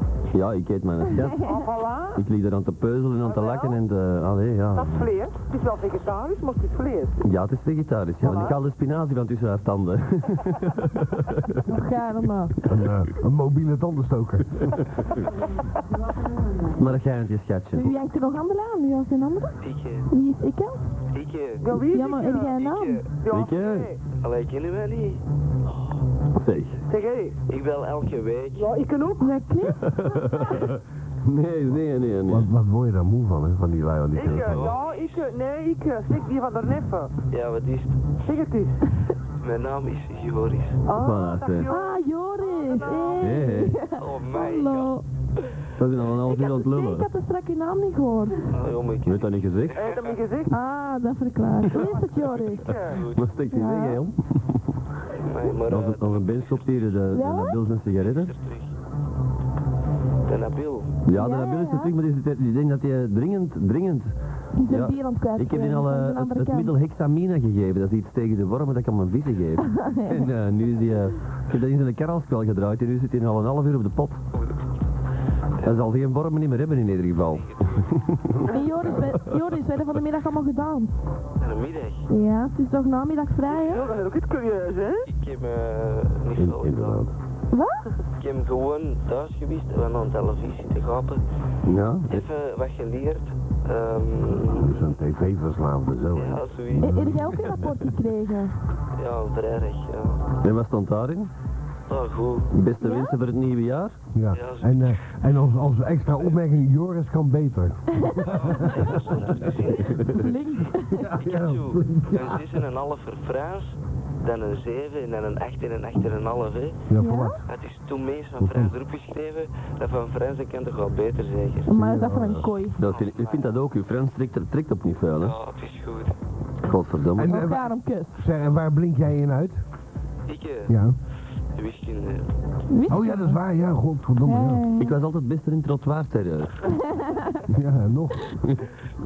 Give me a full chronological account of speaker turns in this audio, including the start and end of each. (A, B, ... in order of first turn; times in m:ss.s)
0:00.3-0:01.6 A
0:01.4-0:02.2 B
0:02.1-0:05.1 A
0:03.2-0:03.8 B
0:04.7-0:07.2 B
0:07.2-0:11.5 A
0:08.2-0:08.6 B
0:11.7-0:12.6 C
0:12.6-0:14.8 D
0:16.8-0:18.0 A
0:17.7-0:20.8 C
0:19.6-0:20.1 E
0:21.1-0:21.8 E
0:21.6-0:24.0 B
0:21.8-0:23.0 C
0:23.3-0:23.9 A
0:24.2-0:25.2 E
0:26.4-0:26.8 A
0:26.9-0:27.4 B
0:27.5-0:28.7 E
0:28.6-0:29.4 B
0:29.2-0:29.9 C
0:29.8-0:32.5 A
0:32.3-0:34.7 D
0:34.2-0:37.1 B
0:34.2-0:35.3 E
0:37.3-0:38.2 E
0:38.3-0:38.8 B
0:39.4-0:40.8 E
0:40.8-0:43.4 B
0:41.0-0:41.7 A
0:41.7-0:45.0 C
0:43.2-0:43.8 A
0:44.0-0:45.0 E
0:45.8-0:47.1 A
0:46.2-0:48.5 C
0:48.5-0:50.2 E
0:49.0-0:49.8 A
0:49.8-0:50.6 B
0:50.5-0:52.8 C
0:51.8-0:53.0 B
0:51.8-0:53.4 E
0:53.2-0:54.8 A
0:53.5-0:54.0 C
0:55.2-0:56.7 E
0:55.7-0:58.3 A
0:57.1-0:57.6 C
0:57.9-0:58.7 E
1:00.2-1:01.0 E
1:01.1-1:14.2 A
1:01.1-1:01.9 C
1:04.6-1:06.7 C
1:09.8-1:10.3 C
1:14.3-1:14.9 E
1:15.6-1:18.4 A
1:17.3-1:18.5 E
1:18.4-1:20.9 C
1:21.4-1:22.1 E
1:22.1-1:23.8 C
1:23.5-1:24.1 E
1:23.7-1:25.1 B
1:25.1-1:27.0 E
1:26.4-1:27.1 D
1:27.5-1:27.8 C
1:28.2-1:31.2 E
1:31.6-1:32.2 A
1:32.1-1:34.8 E
1:34.5-1:37.7 D
1:36.1-1:37.3 E
1:36.8-1:38.6 C
1:39.0-1:40.3 E
1:40.4-1:41.3 A
1:41.9-1:42.5 E
1:42.5-1:44.0 A
1:42.8-1:43.2 C
1:44.1-1:49.3 D
1:44.3-1:45.0 E
1:48.4-1:50.1 E
1:50.0-1:51.1 C
1:50.9-1:52.5 D
1:51.2-1:56.8 E
1:56.9-1:57.4 D
1:57.0-1:57.4 C
1:57.5-2:01.9 E
1:58.4-1:58.8 D
2:01.7-2:02.8 C
2:01.7-2:02.5 D
2:02.8-2:05.4 A
2:02.8-2:03.6 E
2:05.2-2:06.2 E
2:06.6-2:07.4 A
2:07.2-2:09.6 D
2:07.2-2:08.2 C
2:10.3-2:10.7 E
2:10.7-2:11.0 D
2:11.6-2:12.3 E
2:12.7-2:13.4 C
2:12.9-2:14.6 D
2:14.2-2:15.0 C
2:14.8-2:16.6 A
2:17.5-2:18.4 D